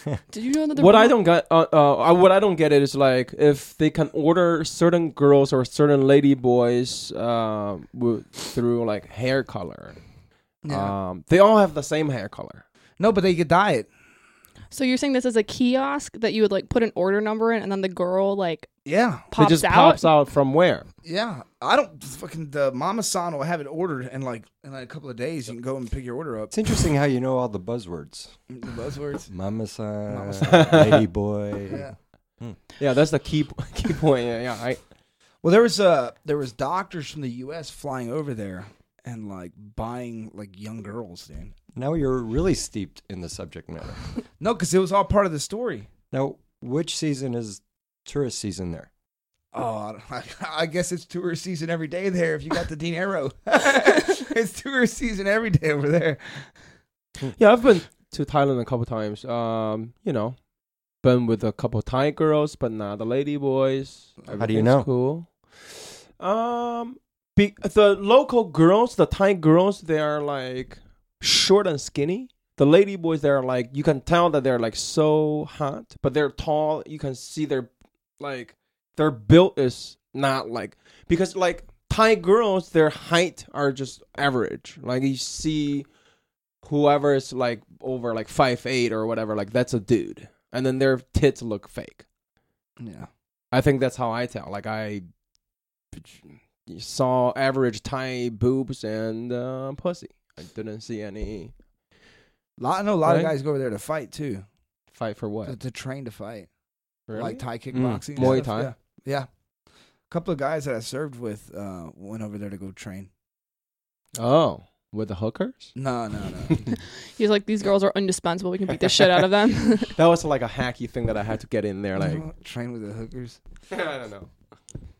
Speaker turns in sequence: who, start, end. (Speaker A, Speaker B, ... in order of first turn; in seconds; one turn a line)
Speaker A: 0.3-1.1
Speaker B: 0.8-10.0
Speaker C: 10.6-10.9
Speaker B: 10.7-12.6
Speaker C: 13.0-13.9
Speaker A: 14.7-18.7
Speaker C: 18.8-19.3
Speaker A: 19.3-20.1
Speaker B: 19.4-20.9
Speaker C: 21.0-26.5
Speaker D: 26.5-28.3
Speaker C: 28.5-29.3
Speaker D: 29.3-31.9
Speaker C: 30.1-31.0
Speaker B: 30.4-31.0
Speaker C: 31.7-31.9
Speaker B: 32.8-34.8
Speaker C: 35.4-41.5
Speaker D: 41.7-44.0
Speaker C: 44.4-45.9
Speaker D: 46.1-48.9
Speaker C: 49.5-56.5
Speaker B: 57.4-60.4
Speaker B: 61.0-85.9
Speaker D: 64.3-64.9
Speaker B: 86.6-92.0
Speaker C: 92.8-93.1
Speaker B: 93.5-95.0
Speaker B: 95.9-101.5
Speaker C: 102.6-104.4
Speaker B: 103.0-103.3
Speaker B: 104.9-105.6
Speaker C: 105.5-106.5
Speaker B: 107.1-107.4
Speaker C: 107.1-109.3
Speaker D: 107.7-108.4
Speaker B: 108.1-108.7
Speaker C: 110.1-113.1
Speaker B: 114.2-115.7
Speaker C: 115.8-116.6
Speaker A: 117.1-119.9
Speaker B: 120.0-122.2
Speaker C: 122.0-123.4
Speaker B: 123.7-124.3